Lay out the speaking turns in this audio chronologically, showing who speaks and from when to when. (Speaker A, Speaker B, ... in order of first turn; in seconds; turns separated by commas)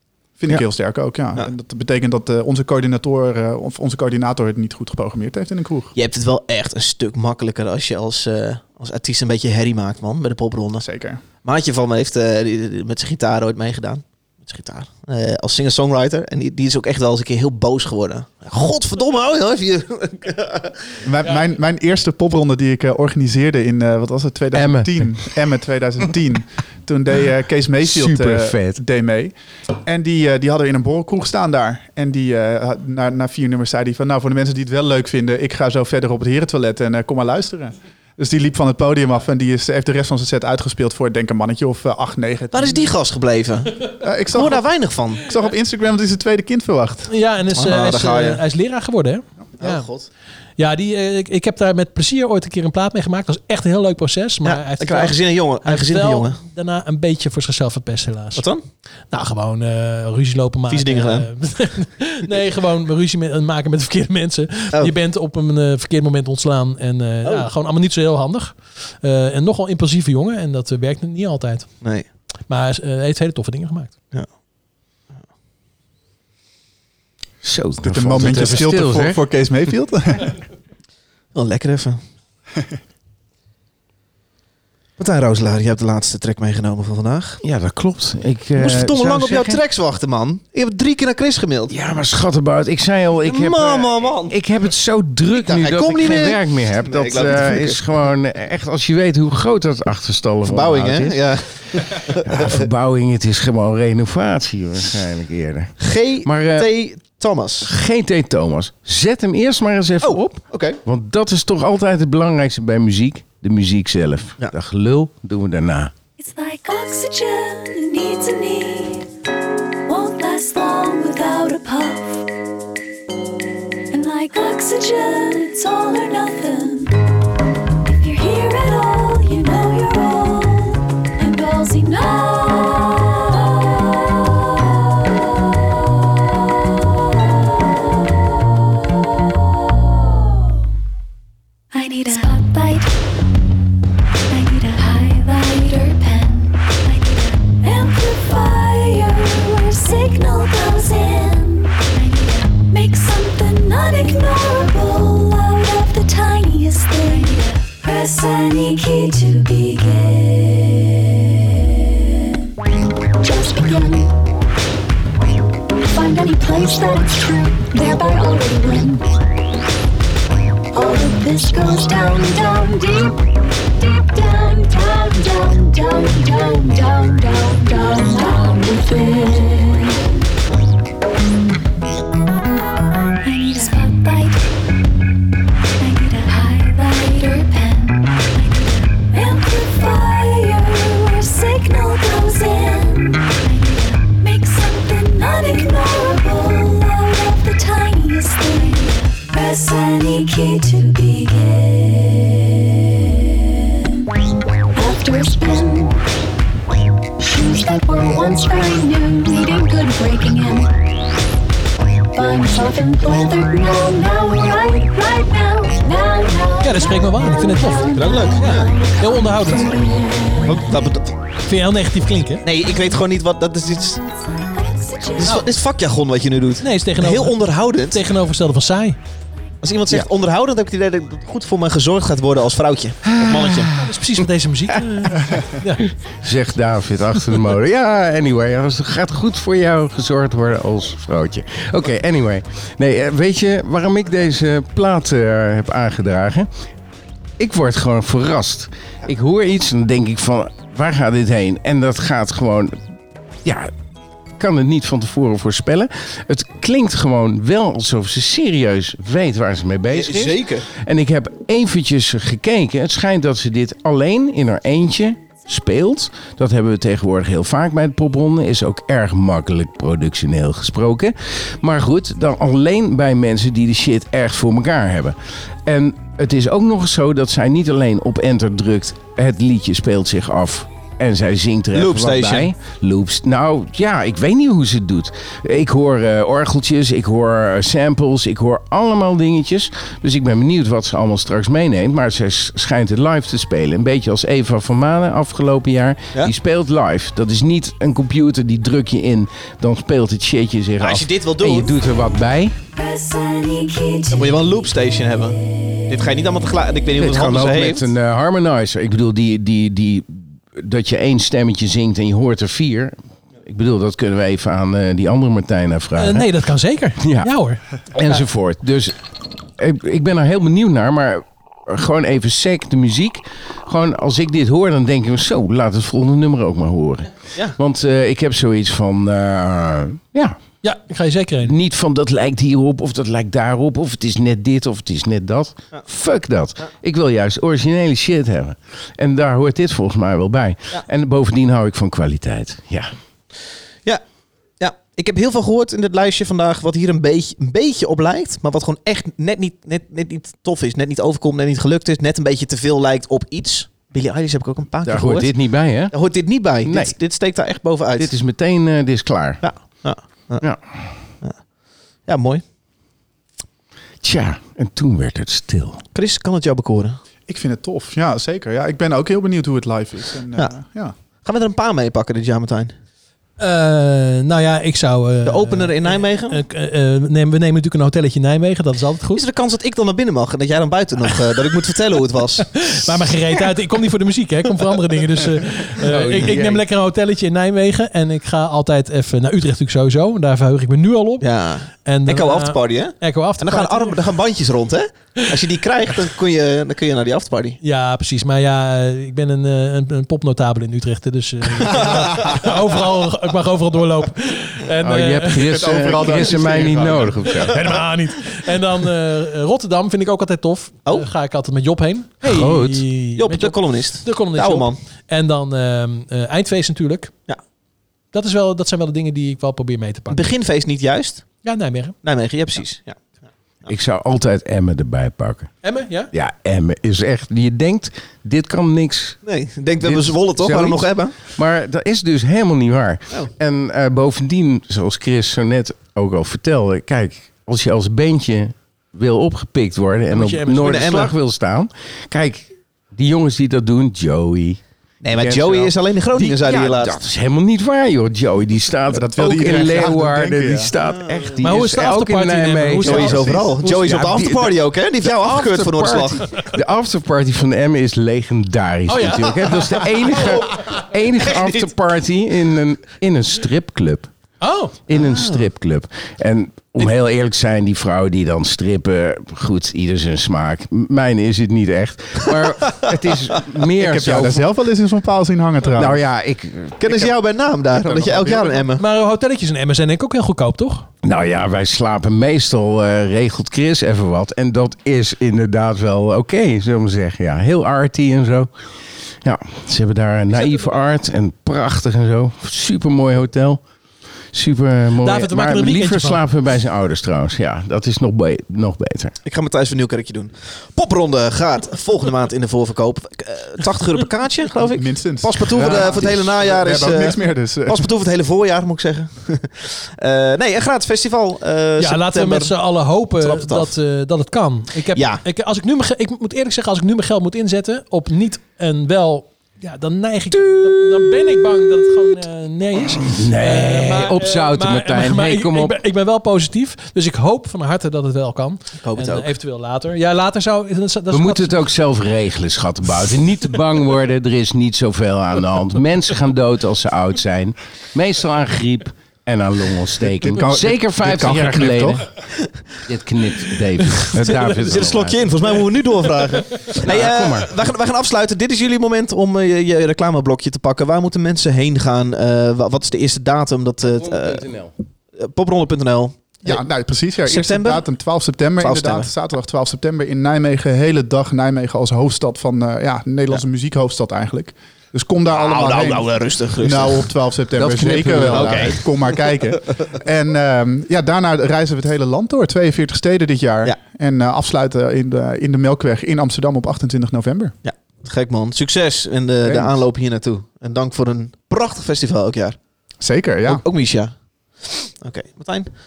Speaker A: 0.4-5.9, Speaker B: 0.5-1.5, Speaker B: 5.9-10.8, Speaker A: 10.8-11.2, Speaker B: 11.4-21.0, Speaker A: 21.0-42.9, Speaker C: 24.5-25.3, Speaker C: 27.8-28.8, Speaker B: 42.5-45.3, Speaker A: 44.0-44.6, Speaker A: 45.2-47.1, Speaker D: 47.1-49.9, Speaker B: 47.5-48.4, Speaker B: 49.6-50.1, Speaker D: 50.6-58.5, Speaker B: 54.4-56.4, Speaker B: 58.4-58.6, Speaker D: 59.1-71.9, Speaker B: 60.7-61.3, Speaker B: 67.2-67.5, Speaker D: 72.5-74.0, Speaker C: 77.4-79.2, Speaker A: 77.8-80.4, Speaker B: 81.3-82.0, Speaker B: 85.0-87.4, Speaker C: 87.4-89.6, Speaker B: 88.6-91.7, Speaker C: 91.7-101.2, Speaker B: 93.2-94.3, Speaker B: 95.3-97.8, Speaker B: 100.4-102.7, Speaker C: 101.7-106.7, Speaker B: 105.8-107.7, Speaker C: 107.7-115.9, Speaker B: 110.0-110.8, Speaker E: 116.2-119.0, Speaker E: 119.9-122.2, Speaker E: 123.9-127.0, Speaker E: 127.8-134.4, Speaker E: 137.6-137.8, Speaker E: 141.7-142.9, Speaker E: 144.3-161.3, Speaker E: 163.2-164.1, Speaker E: 165.9-169.0, Speaker E: 170.7-173.2, Speaker E: 173.8-180.0, Speaker E: 183.2-184.4, Speaker E: 185.8-202.7, Speaker E: 204.7-206.0, Speaker E: 207.2-210.7, Speaker E: 212.1-220.9, Speaker D: 216.6-219.7, Speaker B: 217.9-218.7, Speaker B: 220.4-221.1, Speaker D: 221.4-222.4, Speaker B: 222.4-224.0, Speaker E: 224.1-225.4, Speaker B: 225.2-228.0, Speaker D: 226.6-229.0, Speaker B: 229.6-233.7, Speaker C: 233.2-233.7, Speaker D: 233.8-235.8, Speaker C: 236.2-246.5, Speaker C: 247.4-252.8, Speaker C: 253.4-253.7, Speaker C: 254.4-302.5, Speaker B: 259.9-260.7, Speaker B: 281.7-282.5, Speaker B: 300.8-301.7, Speaker E: 302.7-305.0, Speaker B: 304.1-305.4, Speaker B: 305.9-307.9, Speaker C: 307.0-316.3, Speaker D: 316.0-317.8, Speaker C: 317.0-317.3, Speaker C: 317.9-319.0, Speaker C: 319.6-330.4, Speaker D: 330.6-331.5, Speaker C: 331.4-342.9, Speaker B: 344.6-358.1, Speaker C: 354.8-356.9, Speaker C: 358.0-359.4, Speaker B: 359.4-360.5, Speaker C: 360.4-360.9, Speaker B: 361.1-361.4, Speaker B: 362.0-362.4, Speaker C: 364.0-365.8, Speaker B: 365.9-367.0, Speaker A: 367.3-370.9, Speaker B: 371.2-372.7, Speaker D: 373.4-379.2, Speaker B: 375.2-376.4, Speaker B: 379.1-382.6, Speaker D: 382.6-394.1, Speaker C: 385.8-386.6, Speaker B: 391.2-397.6, Speaker D: 397.6-405.8, Speaker B: 401.6-402.5, Speaker C: 404.8-407.6, Speaker A: 405.4-407.3, Speaker D: 407.5-417.1, Speaker C: 412.2-412.8, Speaker B: 413.1-414.8, Speaker D: 418.1-420.3, Speaker B: 420.1-421.3, Speaker D: 421.4-422.0, Speaker B: 422.0-423.0, Speaker C: 423.7-429.2, Speaker D: 425.6-426.1, Speaker B: 429.2-431.1, Speaker C: 429.8-464.1, Speaker D: 440.1-440.9, Speaker B: 440.6-441.1, Speaker B: 445.0-447.0, Speaker A: 448.9-450.7, Speaker B: 450.9-451.3, Speaker D: 451.4-453.5, Speaker B: 452.8-456.2, Speaker D: 458.9-460.6, Speaker D: 464.4-464.8, Speaker C: 464.9-474.4, Speaker B: 464.9-465.4, Speaker A: 473.8-476.0, Speaker C: 475.8-477.1, Speaker B: 476.8-478.8, Speaker A: 477.7-478.7, Speaker D: 478.8-480.9, Speaker C: 481.0-488.5, Speaker C: 489.2-493.6, Speaker D: 490.3-490.8, Speaker C: 494.3-499.1, Speaker D: 495.0-496.2, Speaker B: 499.2-512.5, Speaker A: 504.6-507.9, Speaker C: 505.6-506.0, Speaker D: 511.8-531.7, Speaker B: 513.2-513.7, Speaker B: 514.9-515.2, Speaker C: 523.0-525.7, Speaker B: 528.8-529.3, Speaker C: 531.1-542.1, Speaker A: 540.2-542.1, Speaker C: 542.8-545.3, Speaker D: 544.2-544.8, Speaker B: 544.4-554.5, Speaker C: 546.8-547.5, Speaker C: 553.9-554.7, Speaker B: 555.1-556.6, Speaker A: 556.4-577.5, Speaker B: 557.2-557.8, Speaker B: 558.6-559.1, Speaker B: 565.3-567.1, Speaker C: 567.5-568.8, Speaker B: 568.3-569.0, Speaker B: 577.6-582.6, Speaker C: 579.4-579.8, Speaker A: 583.0-583.6, Speaker B: 583.5-585.7